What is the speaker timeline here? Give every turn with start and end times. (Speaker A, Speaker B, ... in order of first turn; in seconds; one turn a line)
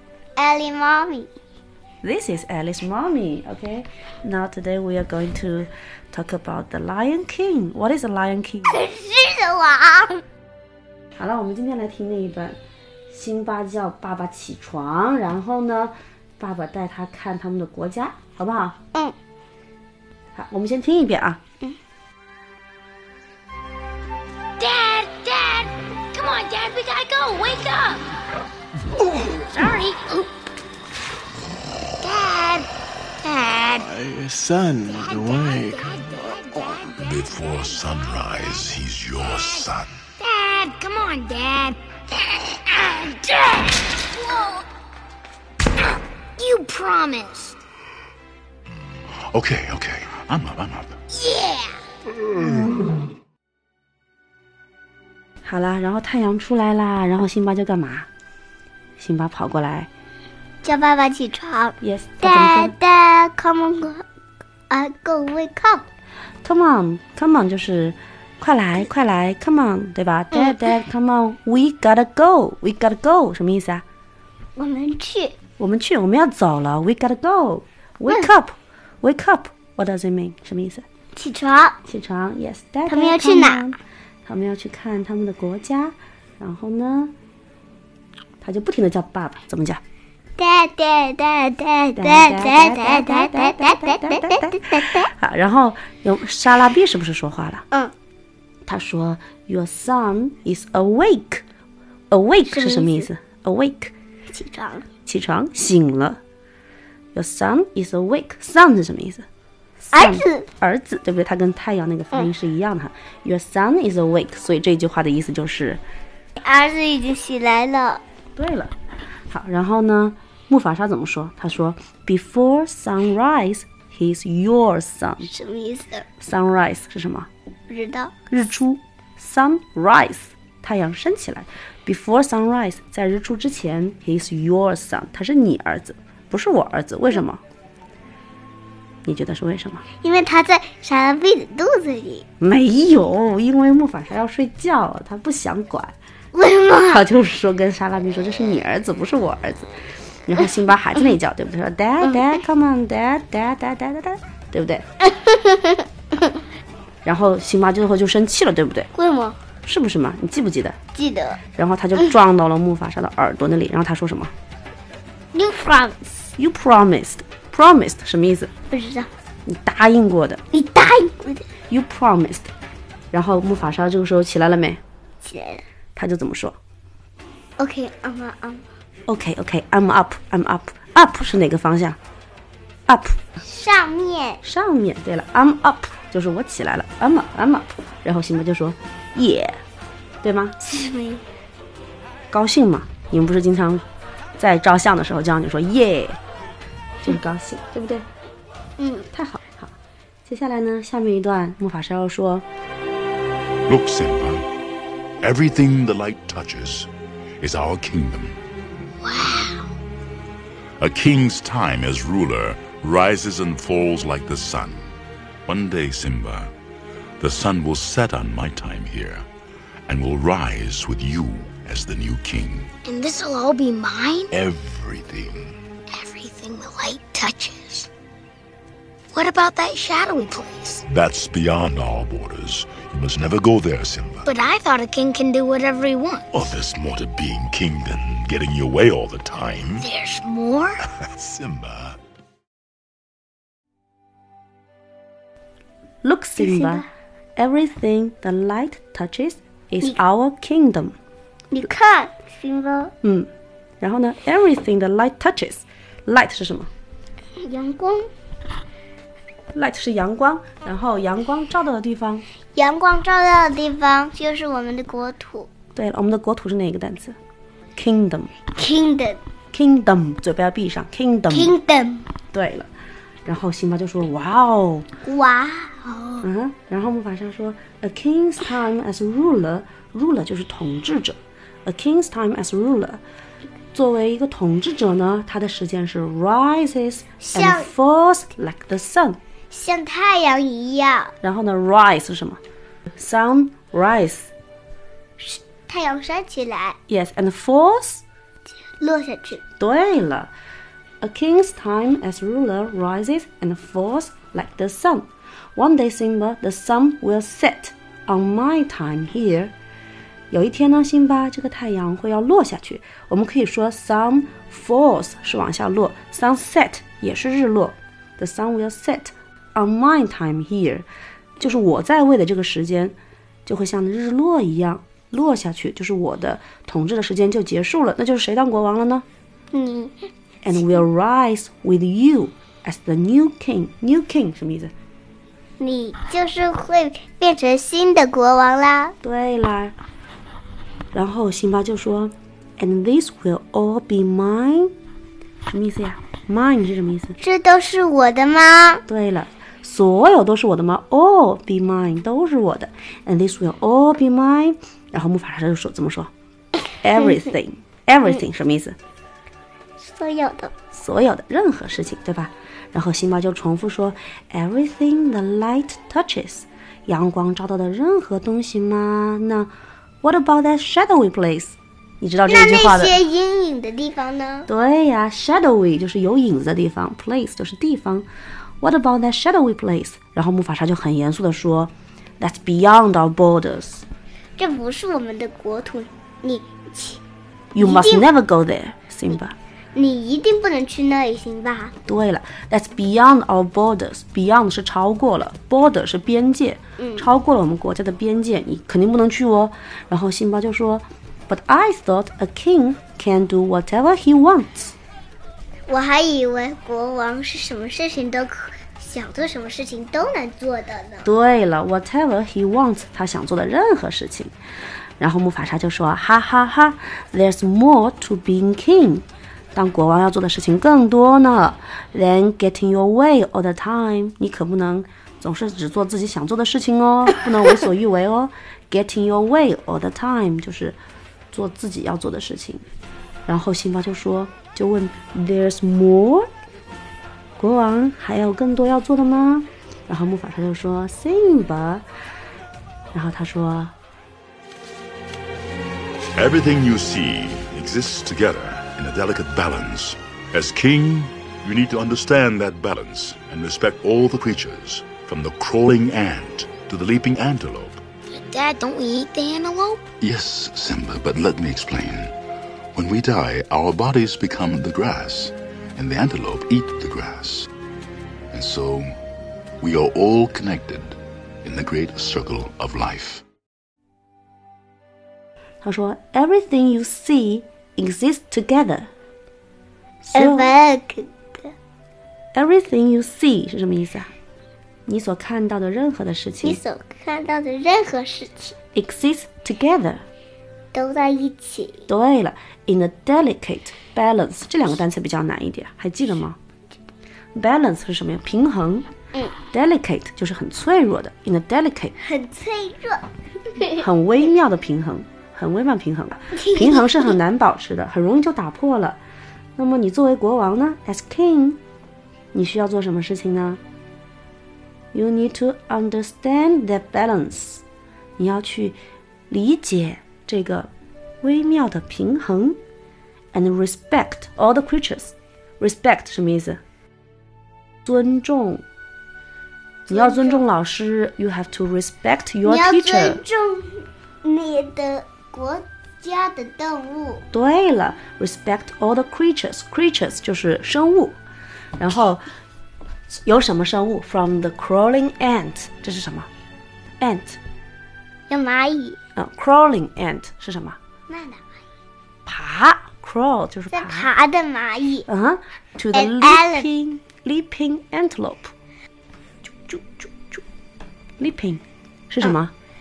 Speaker A: 0.4-1.3
Speaker B: 2.0-8.8
Speaker A: 8.7-10.2
Speaker B: 11.2-12.6
Speaker B: 13.1-18.8
Speaker B: 20.3-21.4
Speaker C: 24.6-28.0
Speaker C: 29.5-30.2
Speaker C: 32.0-32.7
Speaker C: 33.2-33.9
Speaker D: 33.8-35.9
Speaker C: 34.8-37.0
Speaker E: 37.0-39.9
Speaker C: 40.2-44.6
Speaker C: 46.4-47.6
Speaker E: 49.3-51.0
Speaker C: 51.2-51.5
Speaker B: 55.4-58.1
Speaker B: 59.0-59.9
Speaker A: 60.6-64.0
Speaker B: 61.8-62.7
Speaker A: 64.7-65.8
Speaker B: 66.4-73.8
Speaker A: 70.3-70.7
Speaker A: 74.6-75.3
Speaker B: 75.6-80.8
Speaker A: 81.2-81.8
Speaker B: 81.8-87.1
Speaker A: 82.9-83.6
Speaker B: 88.4-89.8
Speaker A: 90.4-95.1
Speaker B: 92.0-97.6
Speaker B: 98.7-101.4
Speaker B: 102.1-103.9
Speaker A: 102.5-103.1
Speaker A: 104.3-104.9
Speaker B: 105.0-106.2
Speaker B: 107.1-109.2
Speaker B: 109.8-115.8
Speaker A: 109.9-110.5
Speaker A: 116.4-118.0
Speaker B: 118.3-118.7
Speaker B: 119.3-125.3
Speaker A: 125.2-126.1
Speaker B: 126.2-127.3
Speaker A: 127.7-128.1
Speaker B: 128.3-137.4
Speaker B: 139.0-139.8
Speaker A: 140.0-142.2
Speaker B: 142.4-145.9
Speaker A: 146.3-147.0
Speaker B: 146.9-149.7
Speaker B: 150.3-154.8
Speaker A: 152.0-152.4
Speaker A: 155.0-156.4
Speaker B: 157.0-158.9
Speaker A: 158.9-159.4
Speaker B: 159.6-160.8
Speaker A: 160.9-161.4
Speaker B: 161.5-164.3
Speaker A: 165.3-166.3
Speaker B: 166.4-168.5
Speaker A: 168.7-169.1
Speaker B: 169.4-170.4
Speaker A: 170.5-171.5
Speaker B: 171.7-172.5
Speaker B: 173.1-174.8
Speaker A: 175.2-175.6
Speaker B: 175.9-176.6
Speaker A: 177.6-178.7
Speaker B: 179.1-182.0
Speaker B: 182.9-183.2
Speaker A: 183.4-184.4
Speaker B: 184.4-189.6
Speaker B: 190.2-190.6
Speaker A: 190.6-191.2
Speaker B: 192.3-193.8
Speaker B: 194.4-196.2
Speaker B: 197.0-198.1
Speaker A: 198.8-199.1
Speaker B: 199.1-202.4
Speaker E: 203.7-204.5
Speaker E: 205.2-206.9
Speaker E: 207.4-208.4
Speaker C: 209.0-209.7
Speaker E: 210.8-214.9
Speaker E: 215.4-216.5
Speaker E: 217.2-219.2
Speaker E: 219.9-222.7
Speaker C: 222.8-224.3
Speaker E: 224.3-225.5
Speaker C: 225.9-227.9
Speaker C: 229.1-230.8
Speaker E: 230.9-234.3
Speaker C: 234.2-236.3
Speaker E: 236.3-239.8
Speaker C: 239.8-240.8
Speaker E: 241.1-242.0
Speaker B: 246.0-246.8
Speaker A: 246.4-246.8
Speaker B: 247.4-250.9
Speaker A: 251.5-252.9
Speaker B: 253.0-253.3
Speaker B: 253.8-256.7
Speaker A: 257.4-258.1
Speaker B: 259.5-262.2
Speaker A: 262.5-265.5
Speaker B: 265.7-267.1
Speaker B: 267.8-268.4
Speaker A: 268.5-269.2
Speaker B: 269.5-271.6
Speaker A: 271.3-272.1
Speaker B: 272.3-272.7
Speaker B: 273.2-274.9
Speaker A: 275.0-276.2
Speaker B: 276.2-283.0
Speaker B: 283.7-289.2
Speaker A: 287.2-287.7
Speaker A: 289.5-291.1
Speaker B: 291.2-292.4
Speaker B: 292.9-294.3
Speaker A: 295.2-296.8
Speaker B: 296.9-298.0
Speaker A: 298.6-299.4
Speaker B: 299.6-300.3
Speaker B: 301.0-309.5
Speaker B: 310.3-320.9
Speaker B: 321.4-329.0
Speaker A: 329.5-329.9
Speaker B: 330.4-334.7
Speaker A: 335.6-338.9
Speaker B: 339.0-339.7
Speaker B: 340.9-344.7
Speaker B: 345.5-347.2
Speaker A: 347.2-348.8
Speaker B: 348.9-356.1
Speaker B: 356.8-358.8
Speaker A: 359.8-360.5
Speaker B: 360.7-369.5
Speaker B: 370.0-373.0
Speaker A: 372.3-374.5
Speaker B: 374.5-378.1
Speaker B: 378.6-383.9
Speaker A: 384.4-387.0
Speaker B: 387.5-389.4
Speaker A: 387.6-388.1
Speaker A: 389.7-391.7
Speaker B: 391.9-404.7
Speaker A: 396.8-397.1
Speaker A: 405.7-411.1
Speaker B: 411.0-414.3
Speaker B: 415.0-430.8
Speaker B: 431.3-432.6
Speaker B: 433.3-436.3
Speaker B: 437.4-441.9
Speaker B: 442.9-443.7
Speaker E: 446.1-457.8
Speaker C: 458.1-459.8
Speaker E: 460.0-462.1
Speaker E: 462.7-467.5
Speaker E: 468.3-468.9
Speaker E: 469.6-473.2
Speaker B: 475.6-478.9
Speaker B: 480.0-480.5
Speaker A: 480.1-481.5
Speaker B: 482.3-484.1
Speaker B: 484.9-486.6
Speaker A: 486.4-488.6
Speaker B: 488.7-490.0
Speaker A: 490.7-491.9
Speaker B: 491.9-496.4
Speaker B: 497.3-498.9
Speaker B: 499.5-501.9
Speaker A: 502.0-503.8
Speaker B: 503.8-509.0
Speaker A: 506.3-507.2
Speaker B: 509.6-511.6
Speaker B: 512.3-513.6
Speaker B: 514.9-517.6
Speaker B: 518.2-518.8
Speaker B: 519.3-520.7
Speaker B: 521.2-522.6
Speaker B: 523.3-526.6
Speaker B: 527.8-528.6
Speaker B: 529.9-533.2
Speaker A: 529.9-530.4
Speaker A: 532.4-537.2
Speaker B: 537.3-541.2
Speaker B: 541.8-542.2
Speaker B: 543.1-546.3
Speaker B: 547.0-547.4
Speaker A: 548.3-549.0
Speaker B: 549.1-550.8
Speaker A: 551.1-551.4
Speaker B: 552.2-554.1
Speaker A: 553.7-555.0
Speaker B: 555.1-558.5
Speaker A: 555.9-556.7
Speaker B: 559.4-560.4
Speaker B: 561.2-562.5